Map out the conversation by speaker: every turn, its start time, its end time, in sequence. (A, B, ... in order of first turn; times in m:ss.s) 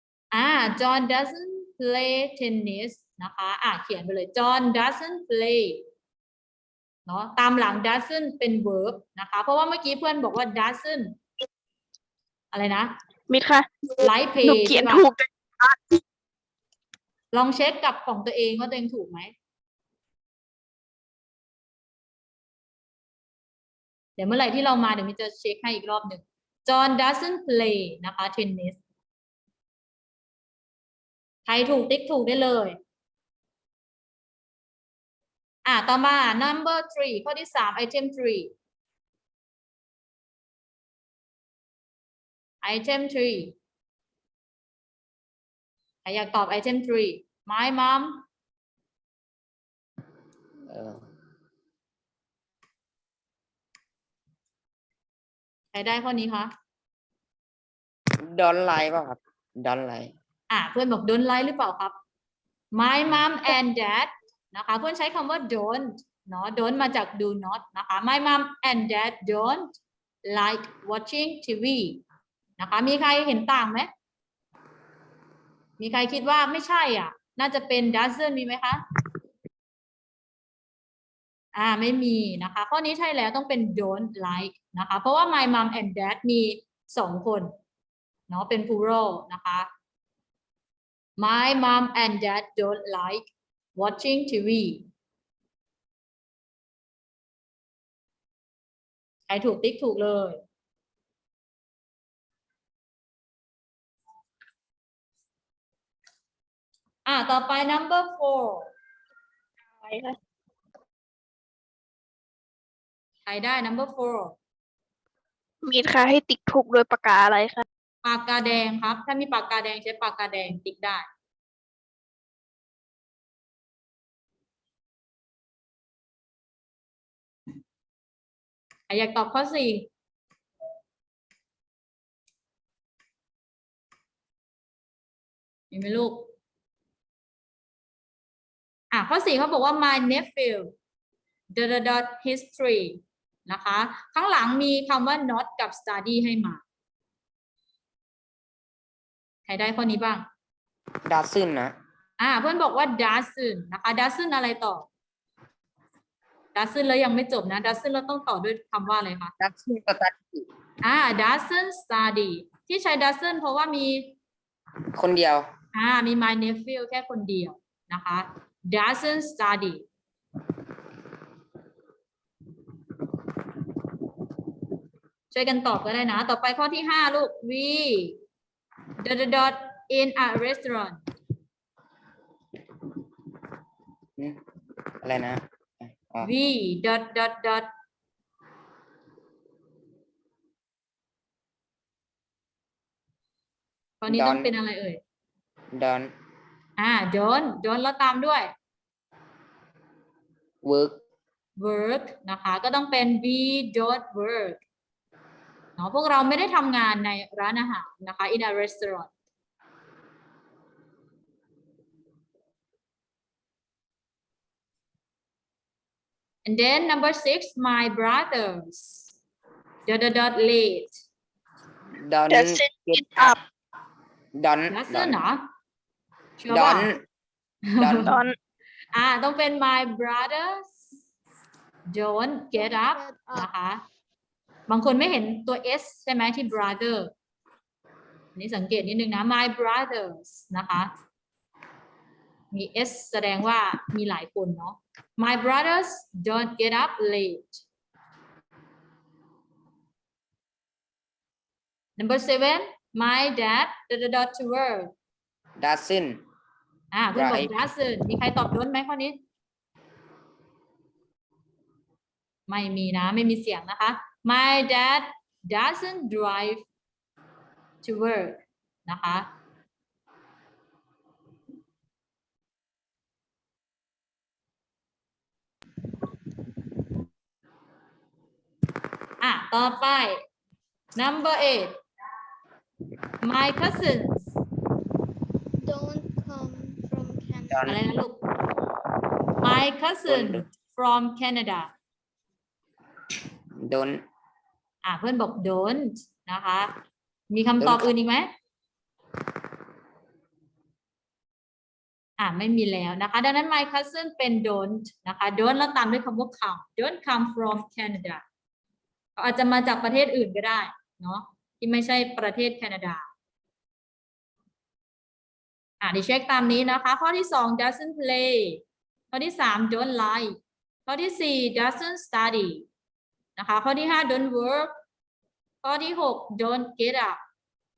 0:00.3-0:05.8 A
0:07.1-0:11.2 A
0:12.5-0:12.9 A
0:13.3-0:16.0 B
0:14.0-0:15.0 A
0:17.3-0:19.3 A
0:24.2-0:28.8 A
0:31.5-0:32.8 A
0:35.6-0:38.5 A
0:42.6-0:43.5 A
0:46.0-0:48.2 A
0:50.6-0:51.1 C
0:55.7-0:56.5 A
0:58.2-1:00.1 C
1:00.5-1:01.9 A
1:02.7-1:09.7 A
1:10.2-1:12.0 A
1:12.6-1:13.9 A
1:15.8-1:18.8 A
1:21.5-1:27.5 A
1:28.3-1:29.7 A
1:31.2-1:34.8 A
1:39.3-1:40.4 A
1:47.0-1:48.7 A
1:49.8-1:50.2 B
1:53.2-1:54.3 A
1:55.6-1:57.6 B
1:58.0-2:01.0 A
2:08.9-2:09.9 A
2:15.7-2:16.2 A
2:18.9-2:20.7 A
2:21.5-2:26.6 A
2:29.5-2:30.2 A
2:31.0-2:31.8 C
2:32.2-2:34.8 A
2:36.5-2:39.3 A
2:39.4-2:40.5 C
2:40.8-2:44.1 A
2:44.9-2:45.5 C
2:45.7-2:49.8 A
2:55.3-2:58.2 A
2:59.0-3:01.0 A
3:05.0-3:06.3 C
3:06.2-3:07.7 A
3:14.0-3:15.0 A
3:14.1-3:14.5 C
3:15.7-3:16.1 C
3:16.8-3:18.5 A
3:20.6-3:21.0 C
3:21.6-3:24.6 A
3:25.8-3:29.1 A
3:36.4-3:39.1 A
3:39.9-3:41.0 A
3:42.0-3:43.4 C
3:42.3-3:43.4 B
3:44.4-3:45.2 C
3:44.7-3:45.4 A
3:46.4-3:46.9 A
3:46.5-3:47.0 C
3:47.7-3:48.1 A
3:47.8-3:48.2 C
3:48.0-3:48.3 B
3:48.9-3:50.8 A
3:51.9-3:53.8 A
3:52.9-3:53.5 D
3:54.7-3:57.1 A
3:58.4-4:00.9 A
4:02.5-4:07.6 A
4:12.0-4:14.9 A
4:15.6-4:16.2 C
4:16.9-4:19.2 A
4:17.1-4:17.5 C
4:22.5-4:26.6 A
4:27.8-4:29.2 A
4:39.2-4:40.2 A
4:41.0-4:41.8 A
4:43.2-4:44.3 A
4:45.6-4:47.6 D
4:47.5-4:47.8 C
4:47.6-4:48.2 A
4:49.4-4:51.7 A
4:50.0-4:50.4 C
4:53.5-4:54.0 C
4:54.8-4:56.7 A
4:57.3-4:58.3 A
4:57.6-4:57.9 C
5:02.2-5:08.2 A
5:09.2-5:13.0 A
5:15.8-5:18.6 A
5:19.1-5:22.6 A
5:23.4-5:24.7 A
5:25.6-5:27.2 A